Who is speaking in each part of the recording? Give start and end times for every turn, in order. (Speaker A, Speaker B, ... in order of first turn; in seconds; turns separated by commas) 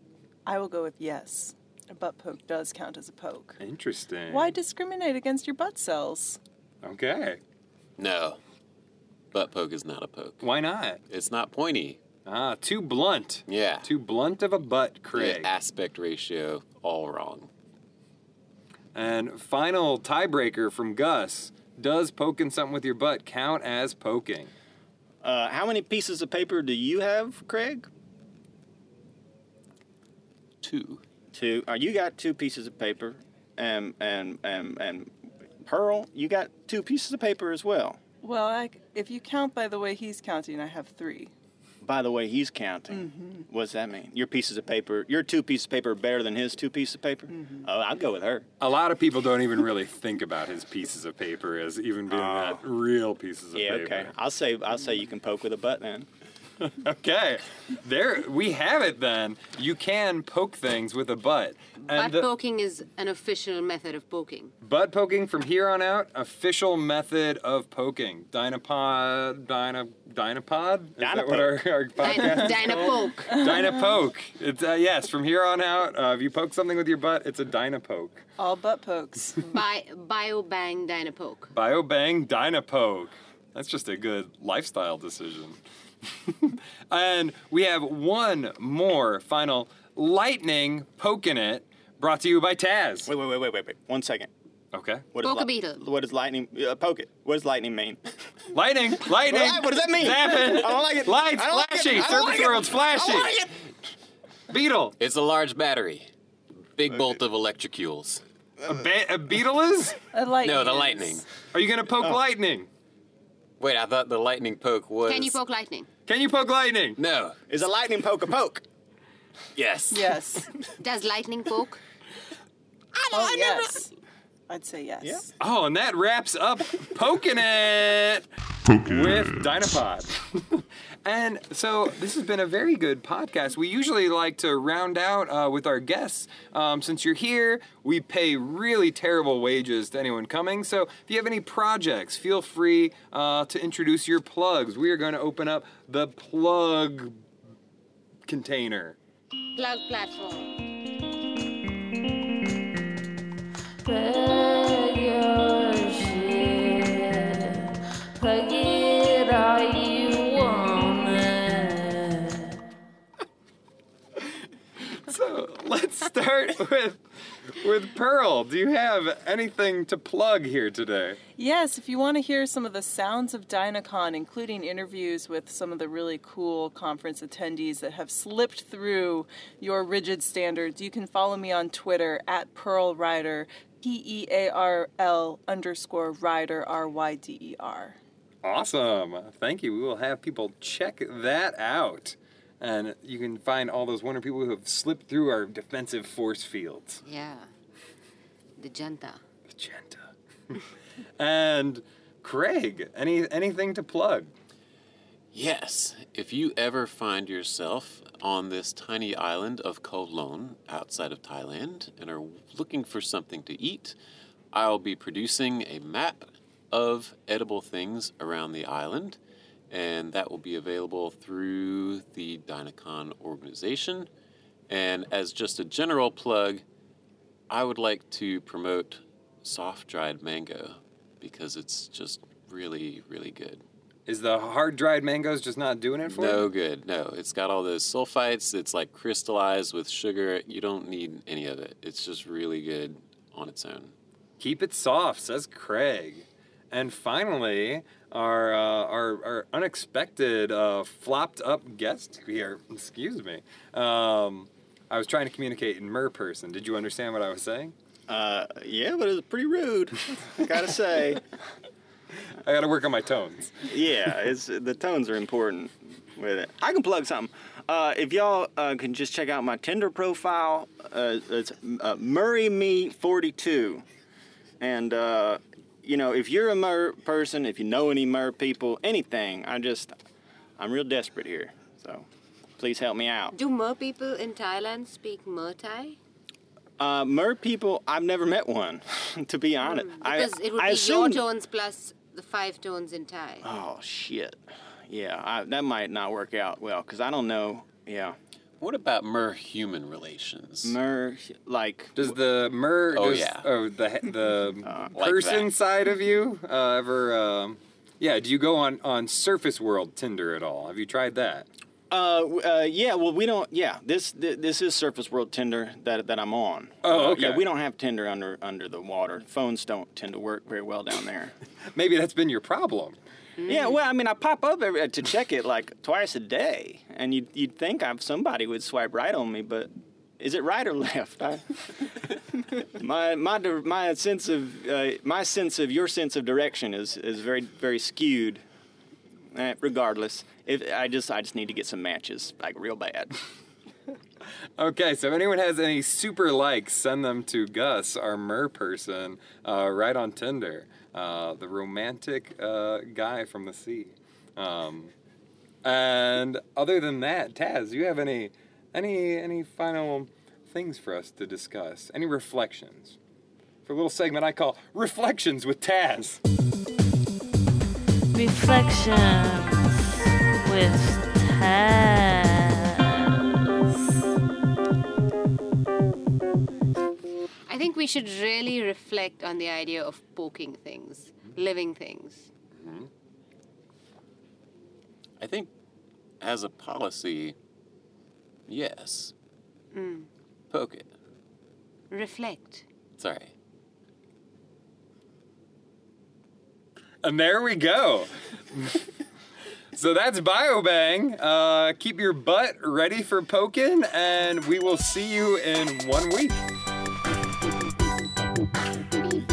Speaker A: 0.5-3.6, Speaker B: 3.6-4.5, Speaker A: 4.3-6.4, Speaker B: 6.8-7.4, Speaker C: 8.0-8.4, Speaker C: 9.3-10.5, Speaker B: 10.4-11.0, Speaker C: 11.1-12.0, Speaker B: 12.2-15.5, Speaker C: 13.5-13.9, Speaker C: 15.1-17.5, Speaker B: 18.9-24.5, Speaker D: 25.2-27.9, Speaker C: 30.6-31.0, Speaker D: 31.3-35.1, Speaker D: 35.6-38.0, Speaker A: 38.2-41.3, Speaker D: 41.8-48.5, Speaker A: 42.9-43.4, Speaker A: 47.4-47.6, Speaker B: 48.6-54.1, Speaker D: 52.1-52.6, Speaker D: 53.5-56.1, Speaker B: 56.6-62.3, Speaker E: 61.9-64.5, Speaker B: 64.6-78.2, Speaker D: 71.0-71.5, Speaker E: 72.0-73.4, Speaker A: 78.4-79.4, Speaker E: 79.4-81.5, Speaker B: 81.5-85.6, Speaker B: 86.2-93.1, Speaker D: 93.1-94.3, Speaker B: 94.7-95.0, Speaker D: 95.1-98.0, Speaker E: 95.2-95.8, Speaker B: 98.5-103.4, Speaker D: 99.2-103.5, Speaker B: 104.5-105.0, Speaker C: 105.0-106.1, Speaker C: 106.8-108.2, Speaker B: 108.6-110.0, Speaker A: 110.1-111.2, Speaker C: 110.4-111.3, Speaker B: 111.5-112.7, Speaker C: 113.6-115.4, Speaker E: 115.1-115.9, Speaker B: 116.1-117.0, Speaker C: 117.0-117.4, Speaker D: 117.5-118.6, Speaker C: 119.5-120.2, Speaker A: 119.9-120.5, Speaker E: 120.8-121.8, Speaker E: 123.0-123.7, Speaker A: 123.1-123.9, Speaker A: 124.5-125.3, Speaker D: 125.0-125.3, Speaker B: 125.4-147.2, Speaker B: 148.3-149.0, Speaker E: 149.5-150.6, Speaker F: 153.8-162.6, Speaker B: 164.8-171.2, Speaker A: 171.4-188.0, Speaker B: 188.4-197.0, Speaker E: 197.0-197.5, Speaker E: 198.6-199.2, Speaker B: 199.5-200.1, Speaker B: 201.2-204.3, Speaker C: 205.3-213.9, Speaker C: 214.5-219.2, Speaker C: 219.7-224.1, Speaker C: 224.7-226.6, Speaker C: 227.5-233.6, Speaker B: 234.1-236.5, Speaker C: 236.1-243.9, Speaker B: 244.4-257.7, Speaker D: 258.1-261.2, Speaker B: 262.4-263.7, Speaker D: 263.6-273.8, Speaker D: 274.6-279.9, Speaker D: 280.6-282.1, Speaker D: 282.6-283.3, Speaker E: 283.3-286.0, Speaker D: 286.8-291.2, Speaker E: 289.6-293.5, Speaker D: 293.4-298.1, Speaker C: 298.6-300.8, Speaker D: 300.6-302.1, Speaker B: 301.9-311.5, Speaker C: 302.9-303.5, Speaker D: 304.6-304.9, Speaker C: 304.9-305.5, Speaker D: 311.9-321.3, Speaker B: 316.8-317.4, Speaker B: 321.7-323.0, Speaker E: 323.4-323.8, Speaker D: 323.4-331.8, Speaker D: 332.8-338.4, Speaker D: 339.3-343.2, Speaker B: 344.6-354.9, Speaker B: 355.6-363.0, Speaker B: 363.6-366.2, Speaker F: 368.1-374.0, Speaker E: 377.5-382.3, Speaker C: 385.2-385.5, Speaker C: 386.2-387.4, Speaker C: 388.5-389.1, Speaker E: 389.7-390.1, Speaker C: 390.5-390.9, Speaker E: 391.9-392.6, Speaker C: 392.9-393.3, Speaker B: 397.0-398.8, Speaker B: 399.7-406.4